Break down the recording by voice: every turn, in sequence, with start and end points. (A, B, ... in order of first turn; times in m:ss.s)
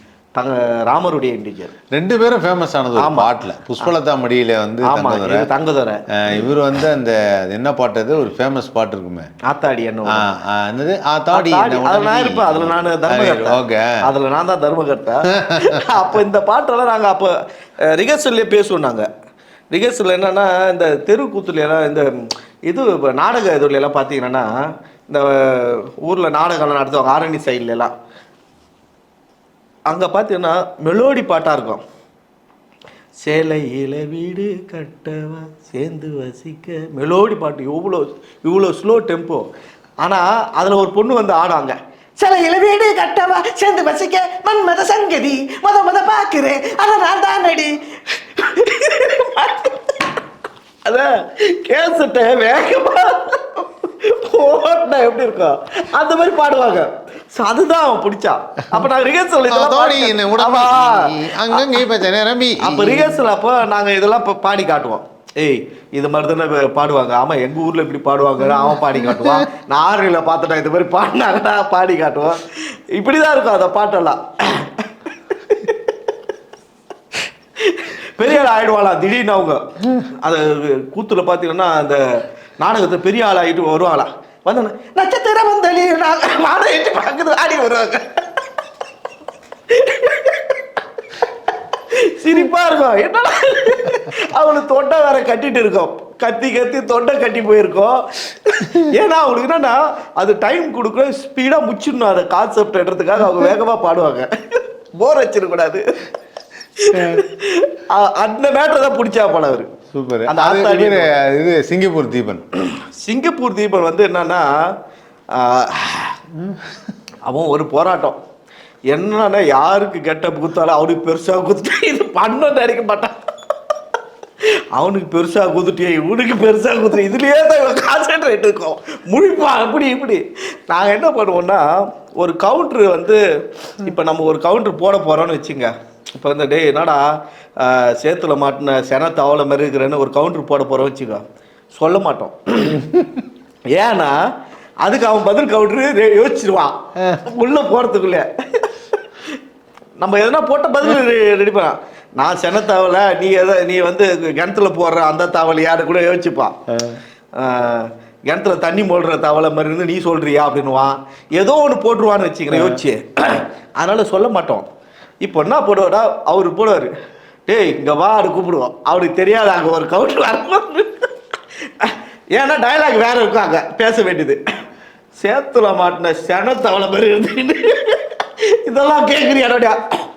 0:00.4-0:01.7 A
0:01.9-0:05.5 B
0:03.0-0:03.3 A
0:04.8-0:06.0 A
0:06.1-0:09.3 B
0:09.4-0:10.3 A
0:10.1-0:13.9 B
0:11.3-0:17.3 A
0:15.4-0:15.7 B
0:17.9-0:19.1 A
0:19.7-0:24.5 A
0:25.1-0:27.9 A
0:29.9-0:31.8 A
0:33.2-0:39.5 A
0:40.0-0:50.2 A
0:50.8-1:01.8 A
0:59.5-1:03.1 B
1:02.6-1:15.9 A
1:17.6-1:22.0 A
1:22.6-1:28.4 A
1:29.7-1:30.6 A
1:31.8-1:45.8 A
1:46.8-1:49.7 A
1:46.9-1:47.2 B
1:49.9-1:52.4 B
1:50.2-1:51.1 A
1:52.6-1:54.5 A
1:55.3-1:56.2 A
1:57.3-1:58.2 A
1:58.9-2:03.1 A
2:04.7-2:21.2 A
2:21.7-2:22.8 A
2:22.8-2:23.2 B
2:23.7-2:24.2 A
2:24.8-2:29.4 A
2:30.0-2:36.6 A
2:36.7-2:37.0 B
2:37.4-2:44.7 A
2:45.2-2:46.9 A
2:47.5-2:51.1 A
2:51.6-2:54.4 A
2:55.2-2:59.8 A